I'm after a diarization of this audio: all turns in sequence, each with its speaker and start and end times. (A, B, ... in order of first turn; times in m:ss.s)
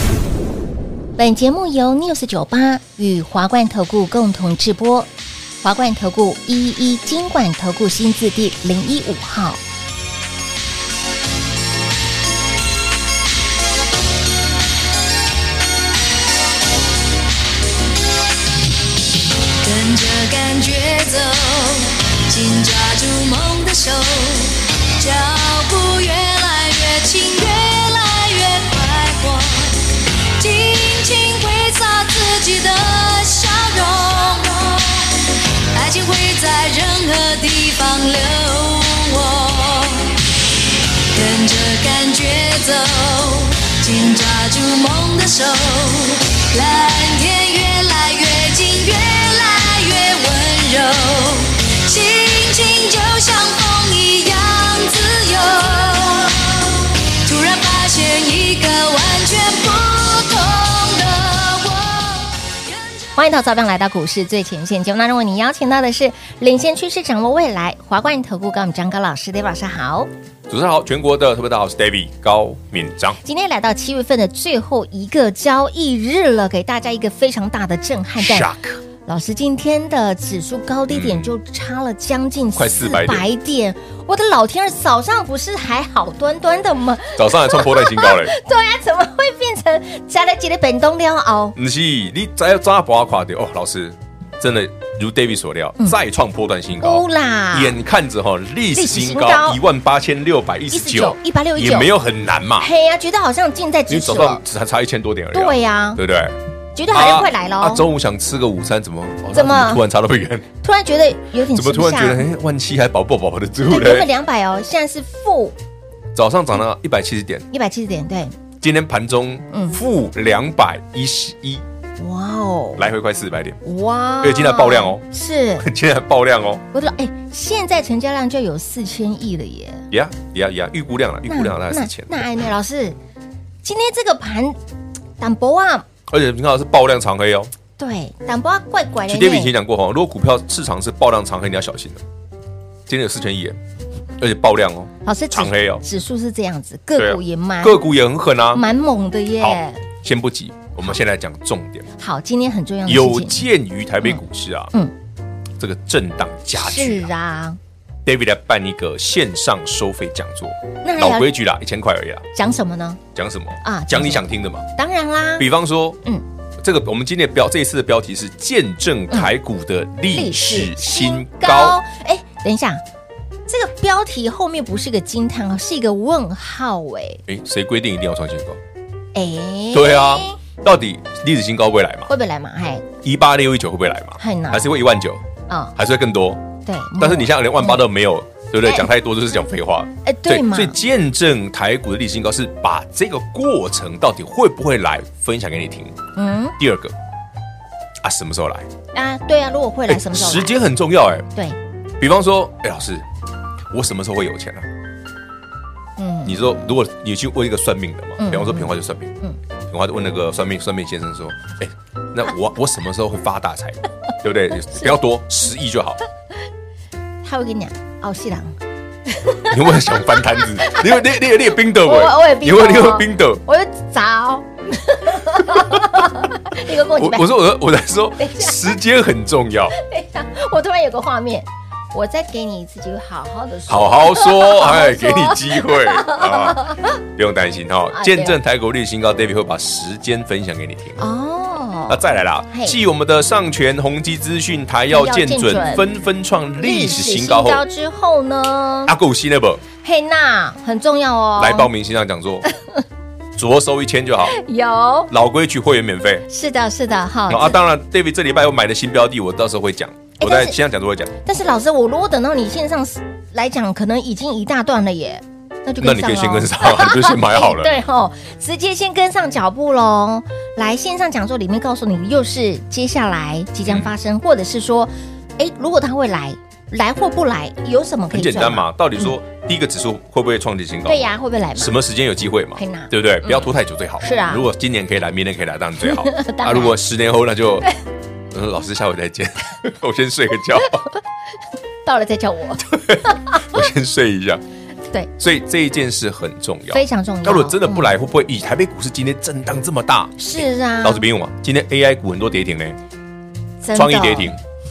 0:01.2-0:05.1 A
0:05.6-0:09.6 A
0:19.6-0:40.2 B
0:41.1-1:02.9 B
1:03.1-1:10.1 A
1:10.5-1:13.2 C
1:13.2-1:18.5 A
1:18.2-1:18.8 C
1:19.0-1:31.6 A
1:20.9-1:21.3 C
1:22.6-1:23.3 C
1:27.1-1:28.4 C
1:31.5-1:42.7 C
1:36.8-1:37.8 A
1:38.7-1:39.6 A
1:40.7-1:41.9 A
1:42.6-1:44.4 A
1:43.9-1:46.4 C
1:45.3-1:46.0 A
1:46.8-1:47.9 A
1:46.9-1:50.4 C
1:49.3-1:49.8 A
1:50.6-1:52.3 A
1:51.5-1:54.1 C
1:53.7-1:55.6 A
1:56.1-1:57.5 C
1:57.5-1:58.4 A
1:58.6-2:01.6 C
1:59.5-1:59.8 A
2:02.0-2:02.8 A
2:02.8-2:03.6 C
2:03.6-2:05.7 A
2:04.2-2:05.0 C
2:05.6-2:06.6 C
2:06.7-2:09.9 A
2:09.9-2:12.2 C
2:11.3-2:13.0 A
2:13.6-2:14.6 A
2:15.2-2:15.8 A
2:16.1-2:17.5 C
2:17.8-2:19.5 A
2:19.1-2:22.0 C
2:22.9-2:23.6 C
2:24.2-2:25.8 C
2:25.0-2:27.9 A
2:27.0-2:28.6 C
2:28.5-2:29.8 A
2:29.4-2:31.8 C
2:32.0-2:33.5 A
2:32.8-2:34.7 C
2:35.6-2:37.1 C
2:36.6-2:37.6 A
2:38.0-2:42.2 C
2:40.8-2:41.3 A
2:42.3-2:43.0 A
2:43.1-2:44.7 C
2:43.6-2:45.5 A
2:45.4-2:46.0 C
2:46.6-2:51.8 C
2:50.1-2:52.8 A
2:53.5-2:57.2 A
2:57.2-2:58.6 C
2:59.1-3:00.4 A
2:59.7-3:02.1 C
3:02.1-3:02.9 A
3:03.0-3:05.2 C
3:04.2-3:04.7 A
3:05.5-3:05.7 A
3:05.8-3:06.4 C
3:06.6-3:07.8 A
3:07.0-3:16.0 C
3:10.0-3:10.8 A
3:16.2-3:16.6 A
3:16.6-3:16.9 C
3:18.0-3:18.7 C
3:18.9-3:20.5 A
3:19.9-3:21.3 C
3:22.0-3:23.0 C
3:23.7-3:24.7 C
3:26.0-3:26.6 A
3:26.2-3:29.2 C
3:28.2-3:29.4 A
3:29.7-3:36.0 C
3:37.2-3:38.6 A
3:39.1-3:41.2 A
3:39.4-3:43.4 C
3:41.7-3:47.3 A
3:46.8-3:49.8 C
3:48.2-3:48.6 A
3:49.7-3:57.0 A
3:53.7-4:01.0 C
3:57.9-3:58.4 A
4:01.0-4:02.8 A
4:01.9-4:07.6 C
4:04.9-4:05.9 A
4:06.6-4:08.9 A
4:08.9-4:09.6 C
4:09.8-4:11.7 A
4:11.4-4:12.4 C
4:13.4-4:14.4 C
4:14.2-4:15.1 A
4:15.1-4:16.3 C
4:16.3-4:17.6 A
4:17.3-4:21.1 C
4:20.2-4:20.6 A
4:21.2-4:39.1 A
4:25.8-4:27.7 C
4:33.6-4:33.9 C
4:38.1-4:47.7 C
4:40.8-4:41.8 A
4:42.6-4:43.5 A
4:44.0-4:44.5 A
4:45.8-4:46.8 A
4:48.3-4:50.8 C
4:51.8-4:53.6 A
4:52.7-4:54.4 C
4:55.2-5:02.8 C
4:56.7-4:57.9 A
5:00.2-5:01.1 A
5:03.6-5:04.3 A
5:03.7-5:04.4 C